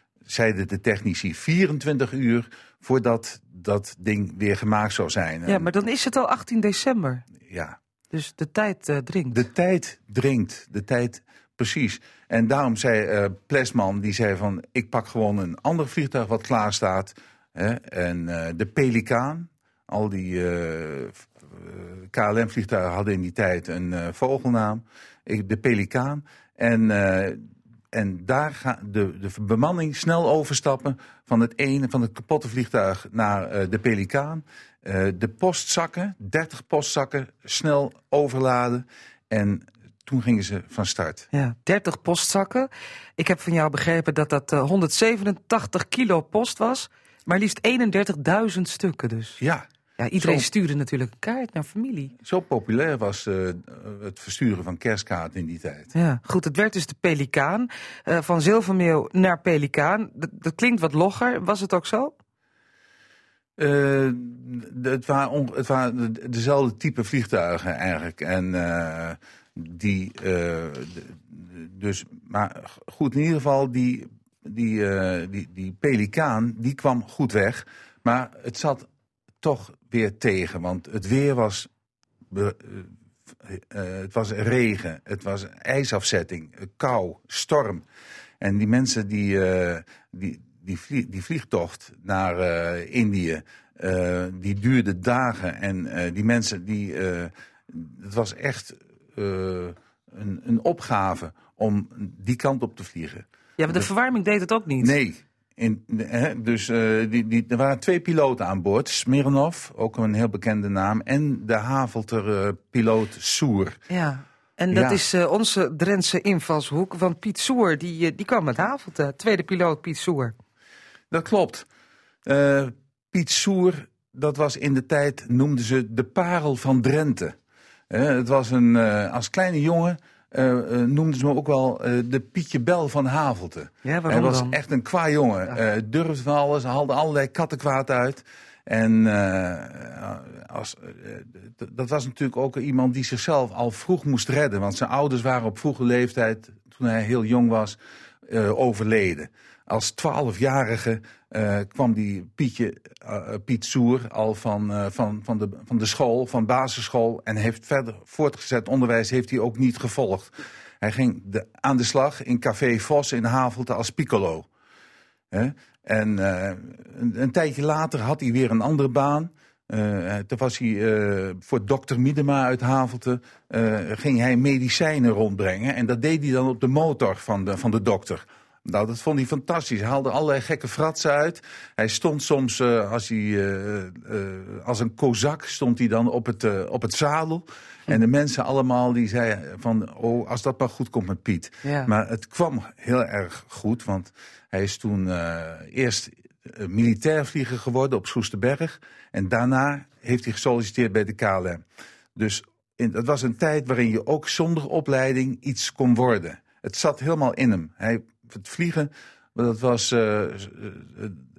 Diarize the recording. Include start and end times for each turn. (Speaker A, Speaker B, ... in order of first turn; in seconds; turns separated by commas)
Speaker A: 0.3-5.7, Speaker B: 5.5-7.2, Speaker A: 7.4-7.8, Speaker B: 8.1-9.4, Speaker A: 9.3-41.2, Speaker B: 41.3-49.4, Speaker A: 49.4-50.5, Speaker B: 50.0-52.1, Speaker A: 52.2-55.9, Speaker B: 55.9-62.1, Speaker A: 63.6-78.9, Speaker A: 79.4-81.7, Speaker A: 82.3-82.9, Speaker A: 83.4-87.8, Speaker A: 88.4-103.9, Speaker B: 103.6-104.9, Speaker A: 104.8-113.8, Speaker B: 113.9-120.3, Speaker A: 114.7-115.0, Speaker A: 121.1-121.7, Speaker A: 122.2-127.3, Speaker A: 127.9-164.5, Speaker B: 133.8-134.6, Speaker A: 165.3-201.6, Speaker B: 191.6-191.9, Speaker A: 202.2-211.2